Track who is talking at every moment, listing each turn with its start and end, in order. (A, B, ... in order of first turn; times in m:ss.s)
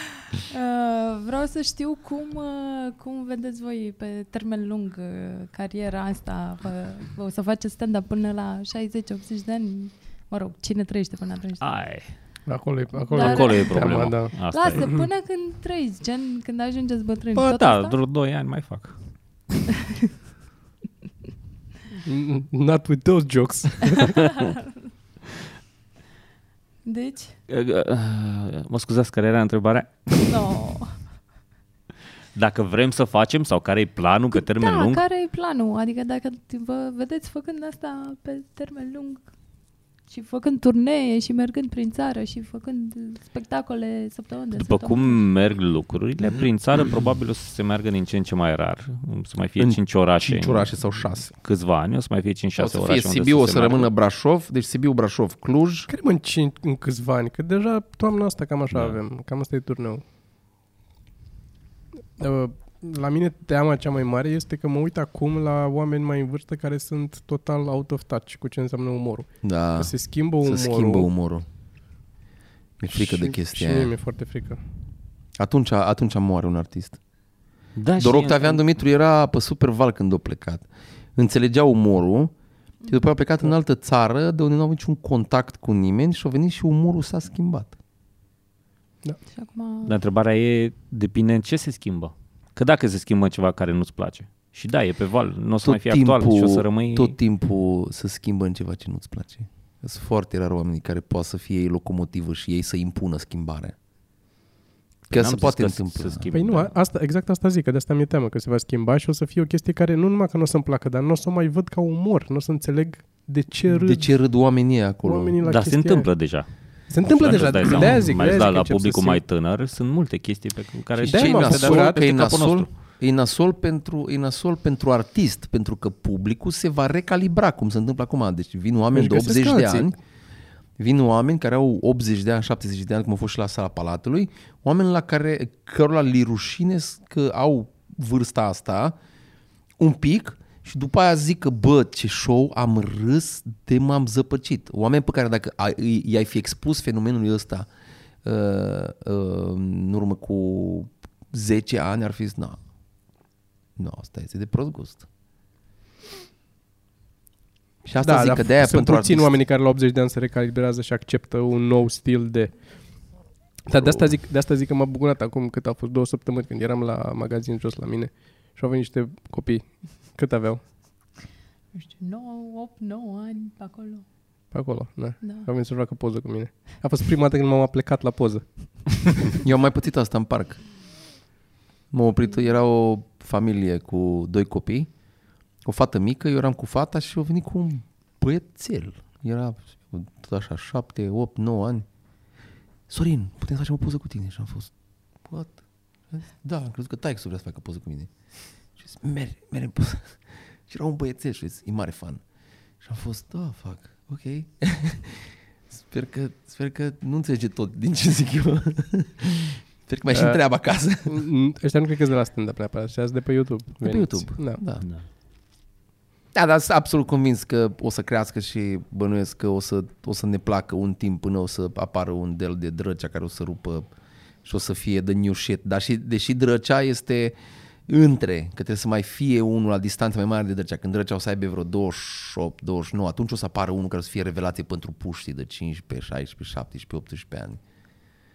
0:00.3-0:11.6 A
0:11.6-0:12.1 B
0:12.4-0:14.3 C
0:13.1-0:18.0 A
0:13.2-0:15.0 B
0:17.3-0:19.0 B
0:22.0-0:24.2 C
0:24.0-0:24.7 A
0:26.8-0:27.3 A
0:27.5-0:30.4 B
0:30.2-0:30.9 A
0:32.3-0:35.0 B
0:34.3-0:39.2 A
0:40.1-0:45.2 A
0:44.5-0:53.9 B
0:49.6-0:51.3 D
0:52.6-0:55.9 D
0:55.9-1:00.0 C
0:58.7-0:59.0 B
1:02.2-1:11.1 C
1:09.4-1:11.4 D
1:12.8-1:13.9 D
1:12.9-1:14.6 C
1:15.4-1:17.0 D
1:17.8-1:18.6 B
1:18.0-1:22.3 D
1:22.9-1:27.7 D
1:29.3-1:29.9 A
1:29.8-1:37.1 B
1:35.6-1:43.7 D
1:45.1-1:46.3 D
1:45.1-1:46.7 B
1:46.3-1:54.1 C
1:53.7-1:55.4 D
1:55.0-1:56.1 C
1:55.4-1:56.4 B
1:56.9-1:59.2 C
1:57.0-2:02.7 B
2:01.0-2:02.0 C
2:01.0-2:10.0 D
2:08.9-2:09.9 C
2:10.8-2:18.9 D
2:19.8-2:27.7 D
2:28.2-2:32.6 D
2:33.8-2:35.0 D
2:37.8-2:39.3 D
2:38.0-2:42.5 C
2:43.6-2:50.6 C
2:43.7-2:44.0 D
2:51.7-2:54.0 A
2:54.5-2:58.4 C
2:55.2-2:55.5 A
2:59.4-3:00.6 D
3:01.9-3:04.9 D
3:05.6-3:11.8 D
3:12.9-3:14.7 D
3:15.3-3:15.6 D
3:16.1-3:18.1 D
3:18.8-3:22.2 D
3:22.8-3:31.2 D
3:30.1-3:30.4 C
3:31.0-3:34.6 C
3:33.8-3:34.8 D
3:36.3-3:43.9 D
3:44.4-3:47.3 D
3:47.9-3:57.6 D